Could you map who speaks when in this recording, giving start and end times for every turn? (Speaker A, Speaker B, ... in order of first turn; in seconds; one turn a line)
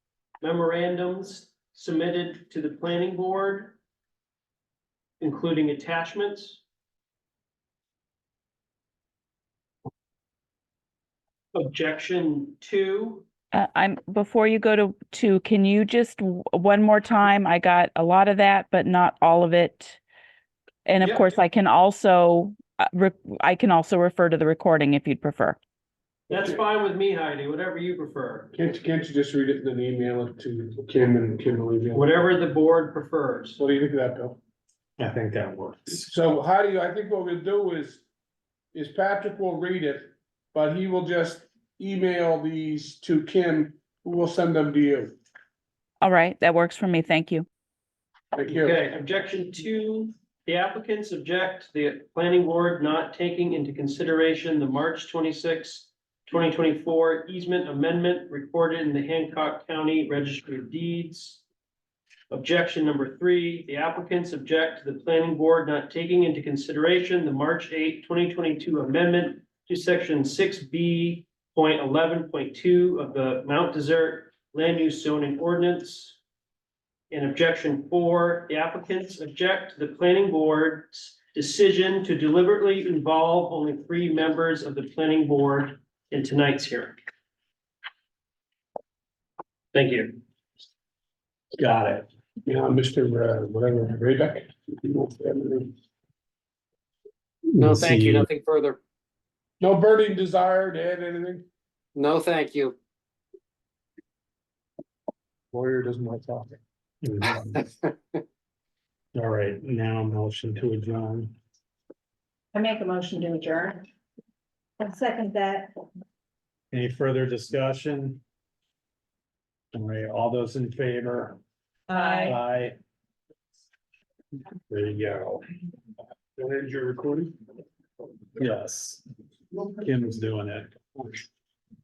Speaker A: 0.4-3.8
Speaker A: 5.2-6.6
Speaker A: 11.5-13.3
Speaker B: 13.5-20.0
Speaker B: 20.9-25.6
Speaker A: 21.0-21.4
Speaker A: 26.3-28.5
Speaker C: 26.3-26.6
Speaker C: 28.5-32.1
Speaker A: 31.9-33.6
Speaker C: 33.6-34.4
Speaker D: 35.0-36.1
Speaker C: 36.1-38.0
Speaker C: 38.7-45.2
Speaker B: 46.0-47.5
Speaker C: 48.3-48.8
Speaker A: 48.5-61.4
Speaker A: 62.3-76.2
Speaker A: 77.1-87.0
Speaker A: 89.7-90.2
Speaker C: 92.5-95.7
Speaker D: 97.6-98.3
Speaker E: 97.6-98.8
Speaker C: 99.6-101.5
Speaker E: 102.0-102.8
Speaker C: 105.5-106.6
Speaker D: 107.0-107.6
Speaker D: 109.1-111.4
Speaker F: 112.5-113.8
Speaker F: 114.8-115.7
Speaker D: 116.7-118.2
Speaker D: 119.7-121.4
Speaker F: 121.9-122.3
Speaker D: 122.2-122.8
Speaker D: 124.7-125.2
Speaker C: 124.8-125.4
Speaker C: 126.4-127.3
Speaker D: 128.4-129.0
Speaker D: 129.6-131.1